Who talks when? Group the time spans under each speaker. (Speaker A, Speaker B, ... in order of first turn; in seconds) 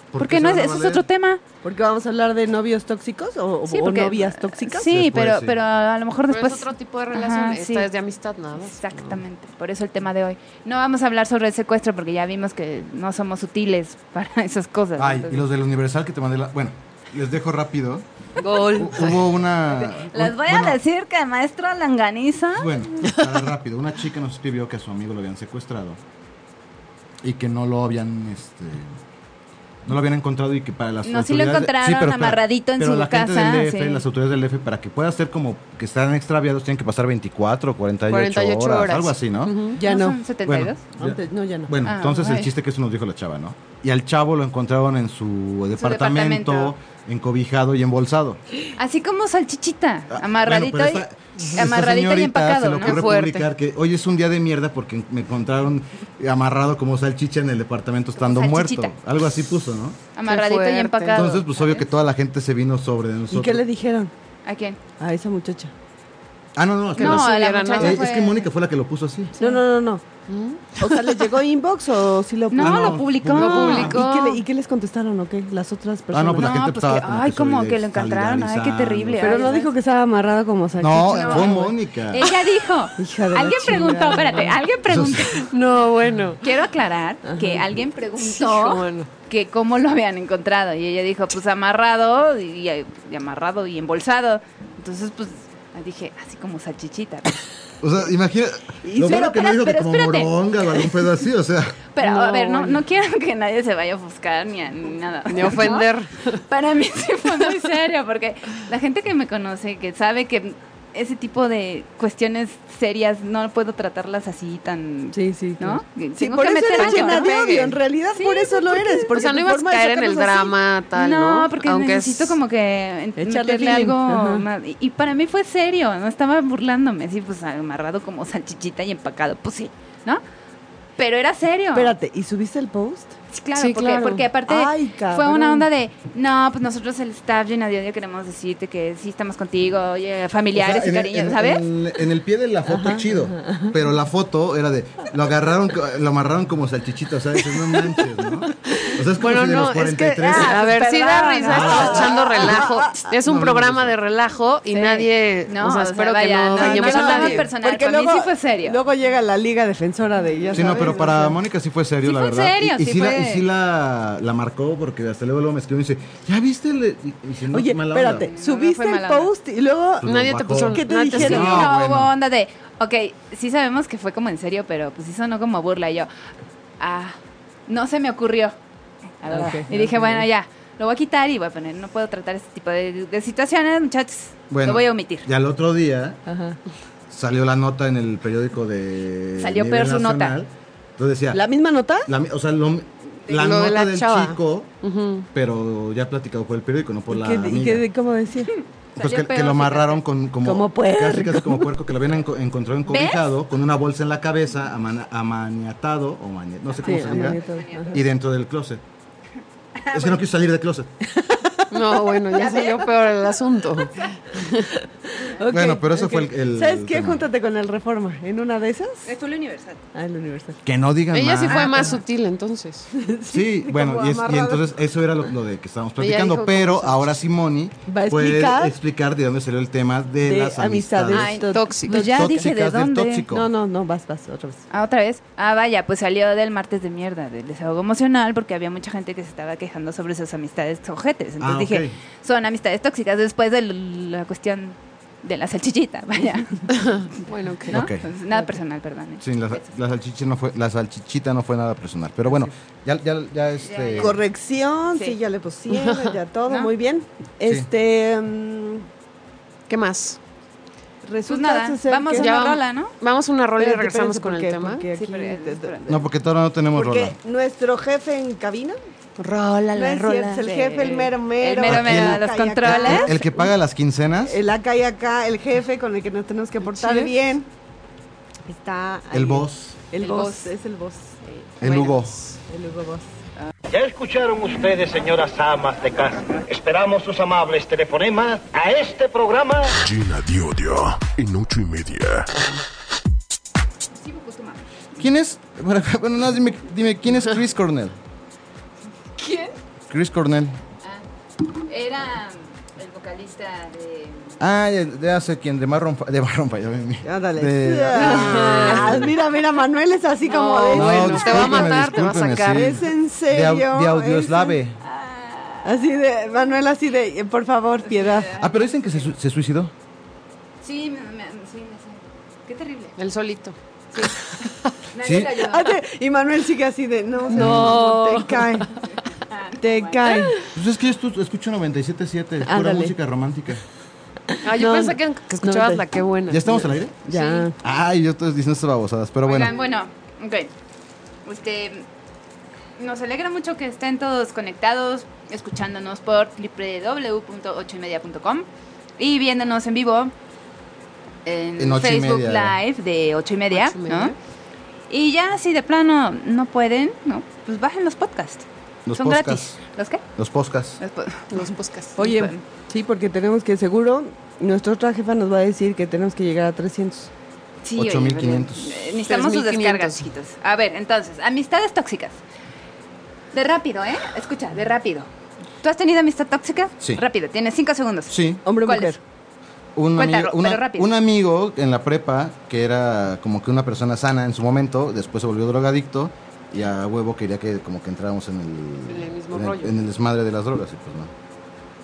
Speaker A: 0.1-1.1, 4.8-5.6, 14.9-20.8, 22.6-26.0, 27.2-28.9, 29.8-39.6, 40.4-48.4, 50.1-60.0, 61.1-63.6, 66.5-69.3, 72.6-74.0, 76.1-79.5, 80.8-82.3, 84.9-85.3, 97.8-101.8, 140.5-150.7, 151.4-153.9, 160.5-168.3, 170.0-172.1, 184.5-186.2, 187.1-191.4, 192.0-194.7, 195.3-197.8, 198.9-208.8, 209.9-210.9, 215.5-217.2, 220.6-221.9, 223.3-231.4, 231.9-233.5, 241.4-242.0, 247.7-248.1, 249.2-254.2, 265.9-267.2, 271.6-274.4, 279.1-279.8, 281.6-282.2, 295.0-297.9, 299.9-300.6, 304.4-309.1, 310.7-314.8, 318.3-319.7, 325.0-325.5, 327.3-327.8, 330.5-333.6, 336.3-336.9, 337.6-339.6, 351.6-352.6, 358.8-359.6, 360.1-360.8, 367.8-368.8, 378.1-378.4, 379.7-391.1
Speaker B: 0.2-1.4, 3.7-7.9, 8.7-15.4, 19.7-22.7, 31.0-34.0, 39.8-40.8, 41.8-42.5, 45.8-46.7, 48.8-53.0, 58.2-58.9, 60.1-61.8, 64.4-64.8, 67.0-68.5, 72.5-74.4, 76.4-79.7, 81.0-85.5, 86.4-97.4, 99.0-100.4, 101.9-105.9, 106.5-117.6, 118.1-119.1, 120.9-130.2, 131.0-131.9, 133.3-141.7, 150.2-152.0, 154.7-158.8, 162.0-163.4, 168.2-169.3, 171.0-176.1, 176.8-178.5, 179.2-185.2, 189.4-190.4, 198.6-200.0, 202.9-203.3, 206.7-208.0, 209.8-210.1, 212.3-212.9, 219.0-219.8, 221.5-222.0, 231.1-233.3, 234.7-246.8, 247.7-249.7, 253.6-254.2, 254.9-255.2, 261.3-262.9, 264.9-265.9, 270.4-273.2, 280.0-280.5, 294.0-294.6, 299.2-299.5, 301.7-304.4, 314.9-315.6, 317.9-319.0, 320.6-322.9, 324.9-325.7, 328.8-330.3, 337.1-337.5, 339.2-340.5, 341.2-341.9, 342.8-348.5, 349.0-350.1, 351.2-354.1, 354.9-360.0, 360.8-362.4, 367.6-372.2, 373.3-375.1, 375.6-379.0, 379.9-380.9
Speaker C: 1.6-4.9, 39.8-40.2, 41.0-41.7, 63.3-64.1, 65.0-65.7, 69.4-70.0, 70.8-76.6, 79.2-81.8, 83.0-84.6, 87.2-87.6, 98.9-99.3, 115.1-120.5, 123.2-124.5, 131.7-133.1, 134.4-135.7, 142.7-143.7, 151.6-153.1, 156.6-161.4, 167.5-170.1, 170.6-171.6, 179.3-180.2, 186.3-186.6, 191.3-192.1, 197.1-198.5, 200.4-201.7, 206.8-208.0, 211.2-211.6, 215.1-219.1, 219.9-220.6, 223.0-224.7, 227.9-228.7, 230.2-232.3, 233.3-234.6, 254.0-258.9, 261.0-262.3, 263.6-266.0, 266.7-268.8, 269.7-273.5, 274.2-277.5, 278.4-281.2, 282.5-283.0, 307.0-311.8, 312.5-314.6, 315.6-318.3, 325.4-328.7, 329.6-330.4, 332.4-332.9, 334.3-335.8, 337.1-337.5, 362.0-367.1, 378.4-379.0
Speaker D: 6.3-8.8, 18.4-19.2, 38.1-39.8, 52.8-53.5, 60.2-61.4, 67.0-68.1, 70.3-71.2, 73.4-74.0, 85.5-86.4, 88.2-89.1, 102.0-102.7, 105.3-106.4, 116.8-117.8, 119.1-122.4, 133.6-134.3, 148.7-157.5, 170.0-171.7, 193.3-195.3, 211.7-214.7, 221.1-222.9, 226.0-227.0, 231.5-232.3, 246.7-247.8, 255.7-256.2, 259.7-260.2, 262.2-264.8, 269.2-270.9, 276.6-277.1, 281.6-282.4, 307.9-309.1, 310.2-312.7, 323.0-323.6, 327.3-328.6, 334.4-336.7, 353.5-354.1, 361.3-362.0, 369.1-370.1, 388.9-389.7
Speaker E: 283.7-289.8
Speaker F: 289.8-292.3